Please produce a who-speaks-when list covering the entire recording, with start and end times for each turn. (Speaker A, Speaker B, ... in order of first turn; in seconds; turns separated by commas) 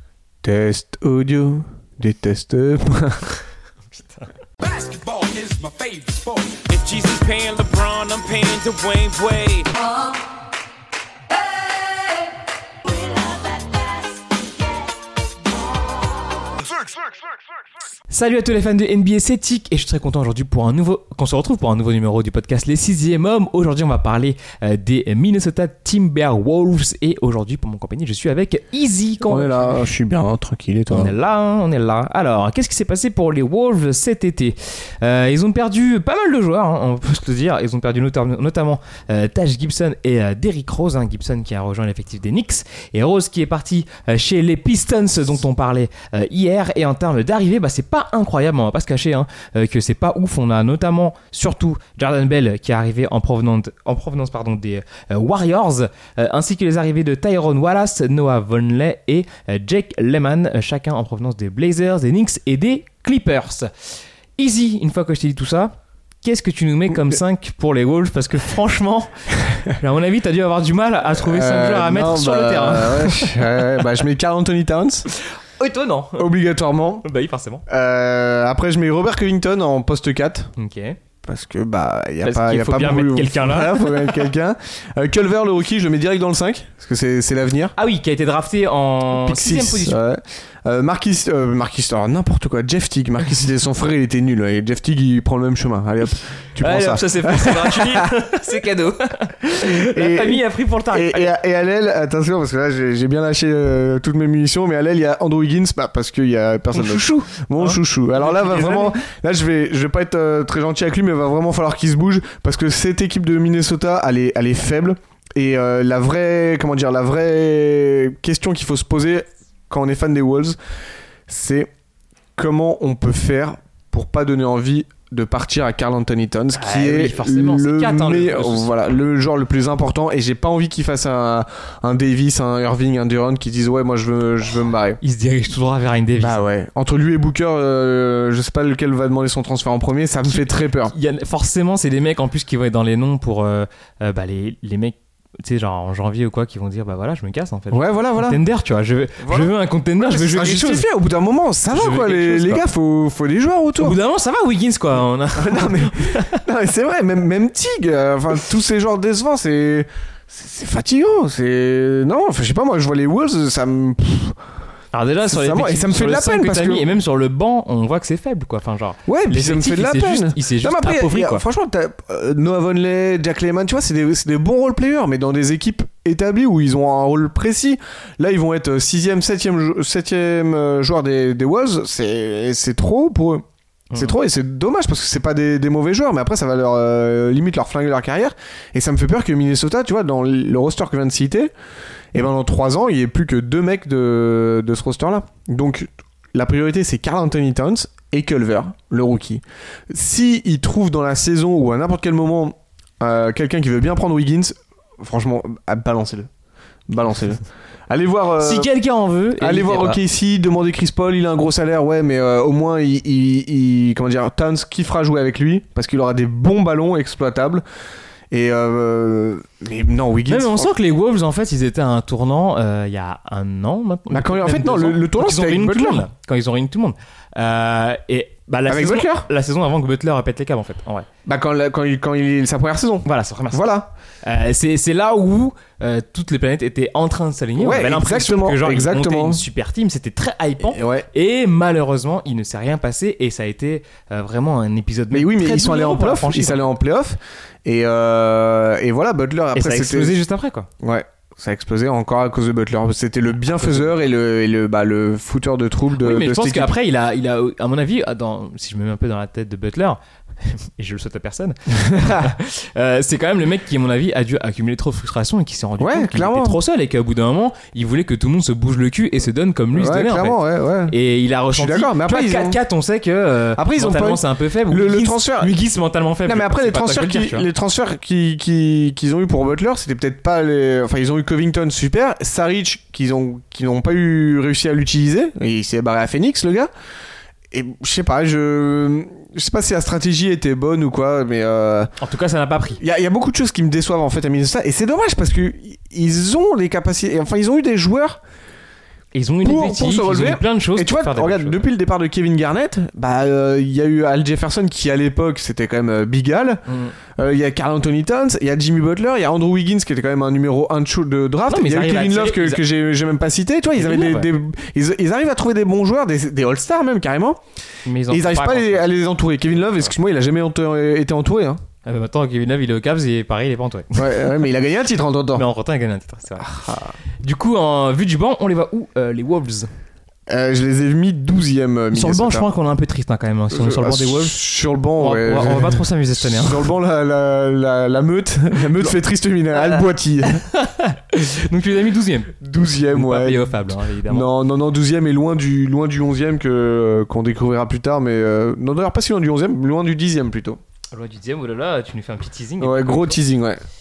Speaker A: 0.4-3.4, Speaker B: 4.0-4.3, Speaker C: 4.6-9.9, Speaker C: 12.9-14.1, Speaker B: 18.1-29.9, Speaker A: 29.2-31.1, Speaker B: 30.9-63.7, Speaker B: 64.4-73.7, Speaker A: 71.1-75.1, Speaker B: 75.2-76.3, Speaker A: 76.2-77.0, Speaker B: 77.0-77.6, Speaker A: 77.7-80.5, Speaker B: 80.6-81.0, Speaker A: 81.2-87.7, Speaker B: 82.2-84.3, Speaker B: 87.8-90.0, Speaker A: 89.1-98.1, Speaker B: 96.6-101.3, Speaker A: 99.5-120.6, Speaker B: 106.7-109.0, Speaker A: 121.3-121.7, Speaker A: 122.3-135.0, Speaker B: 126.5-128.7, Speaker B: 135.0-136.4, Speaker A: 136.2-140.9, Speaker B: 140.2-150.9, Speaker A: 147.7-148.4, Speaker A: 149.2-154.0, Speaker B: 151.7-152.6, Speaker B: 153.8-156.4, Speaker A: 155.3-164.4, Speaker B: 164.9-171.4, Speaker A: 165.2-166.9, Speaker A: 169.1-183.4, Speaker B: 183.9-184.2, Speaker A: 183.9-191.5, Speaker A: 192.1-206.3, Speaker A: 206.9-208.7, Speaker B: 208.4-210.0, Speaker A: 209.4-217.6, Speaker A: 218.3-220.7, Speaker B: 220.3-231.1, Speaker A: 224.1-226.1, Speaker A: 228.7-229.3, Speaker A: 231.2-233.9, Speaker B: 233.0-233.7, Speaker B: 234.2-246.7, Speaker A: 237.6-239.4, Speaker A: 240.7-241.1, Speaker A: 245.1-250.1, Speaker B: 249.5-250.7, Speaker A: 250.8-256.7, Speaker B: 253.5-253.9, Speaker B: 256.0-277.5, Speaker A: 261.9-262.2, Speaker A: 265.8-266.6, Speaker A: 269.7-271.0, Speaker A: 271.5-272.6, Speaker A: 273.6-275.6, Speaker A: 276.2-286.7, Speaker A: 287.5-291.9, Speaker B: 292.0-292.8, Speaker A: 292.8-298.2, Speaker B: 299.1-301.7, Speaker A: 299.4-306.6, Speaker B: 306.7-306.9, Speaker A: 307.1-317.4, Speaker B: 311.5-312.6, Speaker B: 313.7-314.3, Speaker B: 317.9-318.9, Speaker A: 318.1-321.6, Speaker B: 321.8-324.3, Speaker A: 323.9-325.5, Speaker B: 325.3-326.5, Speaker A: 326.4-326.9, Speaker B: 327.2-329.7, Speaker A: 330.3-332.5, Speaker B: 331.9-334.4, Speaker A: 333.5-340.4, Speaker B: 335.0-336.7, Speaker B: 340.4-342.3, Speaker A: 342.4-350.6, Speaker B: 342.9-344.3, Speaker B: 350.9-353.2, Speaker A: 352.6-353.6